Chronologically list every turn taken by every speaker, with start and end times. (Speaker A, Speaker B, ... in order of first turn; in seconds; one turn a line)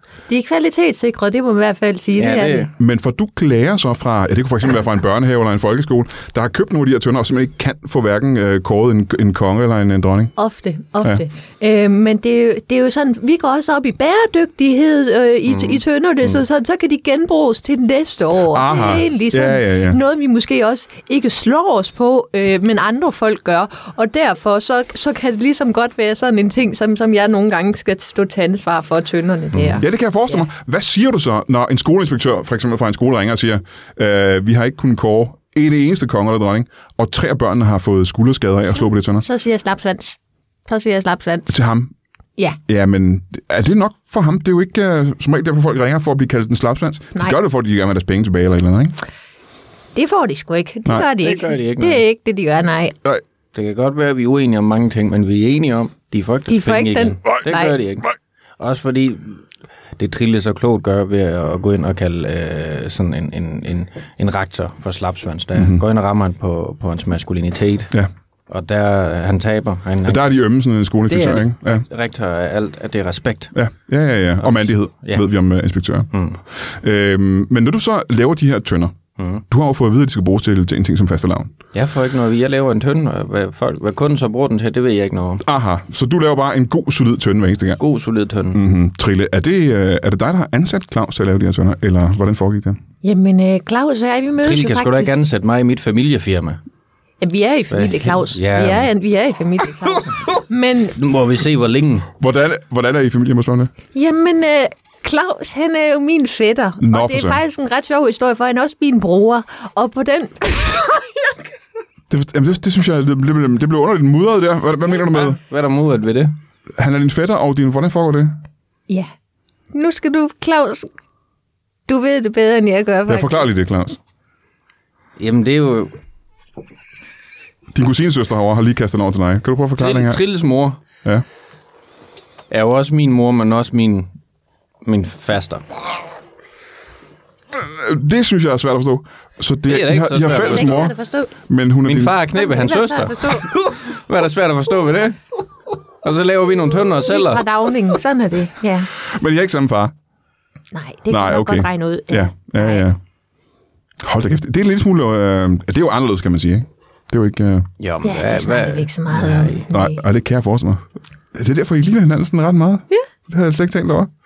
Speaker A: 0.3-2.7
Speaker B: 2.2-2.7
Speaker C: 2.8-10.3
Speaker A: 10.4-29.8
Speaker B: 15.5-16.4
Speaker C: 18.5-20.0
Speaker C: 29.5-39.2
Speaker A: 39.2-41.5
Speaker C: 41.5-41.9
Speaker C: 42.7-48.9
Speaker A: 49.9-53.0
Speaker B: 51.2-52.0
Speaker B: 53.5-59.4
Speaker A: 56.5-57.8
Speaker B: 60.0-67.9
Speaker C: 65.5-65.8
Speaker B: 68.5-70.2
Speaker C: 70.0-71.8
Speaker B: 71.0-73.5
Speaker C: 73.5-76.1
Speaker B: 74.4-75.2
Speaker B: 76.1-76.4
Speaker C: 76.8-79.0
Speaker B: 79.2-79.4
Speaker C: 79.5-81.5
Speaker B: 81.7-85.4
Speaker C: 85.4-87.8
Speaker B: 87.8-88.6
Speaker C: 88.5-92.8
Speaker A: 93.0-95.2
Speaker B: 94.4-96.6
Speaker A: 97.2-101.0
Speaker B: 97.7-98.9
Speaker B: 100.9-102.1
Speaker C: 102.2-103.7
Speaker A: 103.9-111.3
Speaker C: 106.8-107.4
Speaker C: 112.1-115.4
Speaker B: 114.9-116.3
Speaker C: 116.8-118.4
Speaker A: 119.7-120.9
Speaker A: 121.9-123.5
Speaker C: 123.1-124.0
Speaker B: 125.2-126.0
Speaker C: 127.7-130.2
Speaker B: 129.8-130.8
Speaker B: 132.5-134.1
Speaker B: 134.8-135.6
Speaker C: 137.5-140.9
Speaker B: 139.7-140.9
Speaker A: 140.3-141.3
Speaker C: 141.5-142.2
Speaker B: 141.8-145.2
Speaker A: 142.3-143.4
Speaker B: 146.0-147.5
Speaker A: 147.0-148.9
Speaker C: 149.0-149.9
Speaker A: 150.7-152.8
Speaker C: 151.1-153.0
Speaker C: 154.0-157.7
Speaker B: 157.8-159.7
Speaker A: 158.0-160.0
Speaker C: 159.7-164.1